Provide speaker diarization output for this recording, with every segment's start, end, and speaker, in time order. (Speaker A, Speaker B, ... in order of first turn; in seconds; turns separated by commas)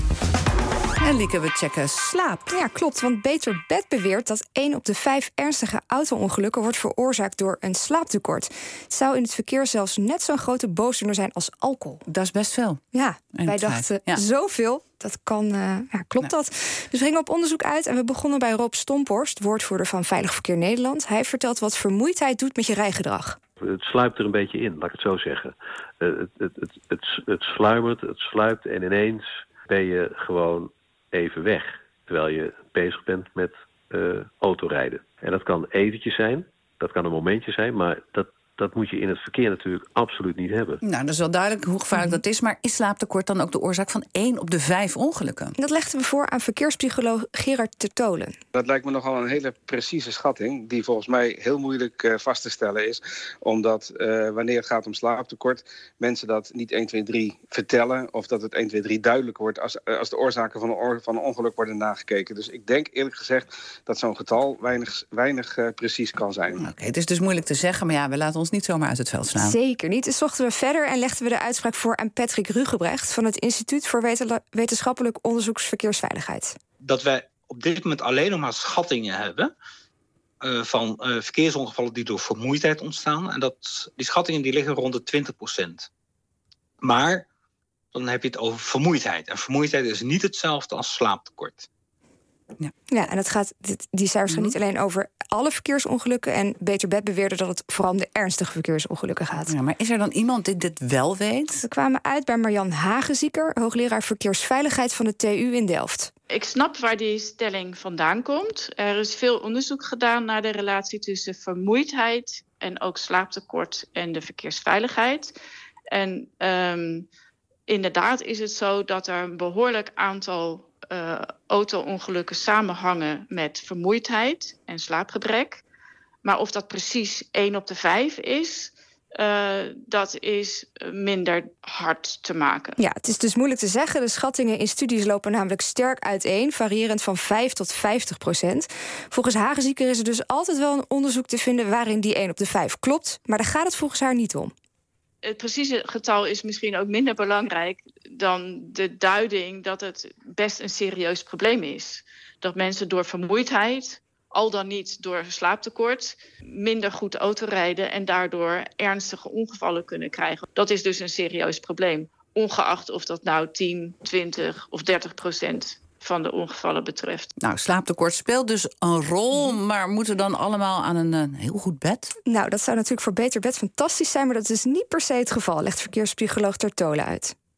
Speaker A: 1.0-2.5, Speaker B: 2.5-12.0, Speaker A: 12.1-12.8, Speaker B: 12.9-23.4, Speaker A: 13.3-14.2, Speaker C: 23.6-40.8, Speaker A: 40.8-45.5, Speaker B: 45.6-48.4, Speaker D: 48.5-66.6, Speaker A: 66.6-69.6, Speaker B: 69.3-76.5, Speaker E: 76.8-79.5, Speaker E: 80.4-85.9, Speaker E: 86.8-87.3, Speaker E: 87.9-91.7, Speaker B: 92.9-99.5, Speaker A: 94.3-94.5, Speaker A: 99.5-101.6, Speaker B: 101.6-106.1, Speaker F: 106.3-115.3, Speaker F: 115.9-117.0, Speaker F: 117.7-125.6, Speaker F: 126.2-132.8, Speaker B: 132.8-144.5, Speaker F: 145.2-167.3, Speaker A: 167.4-172.1, Speaker B: 172.2-177.3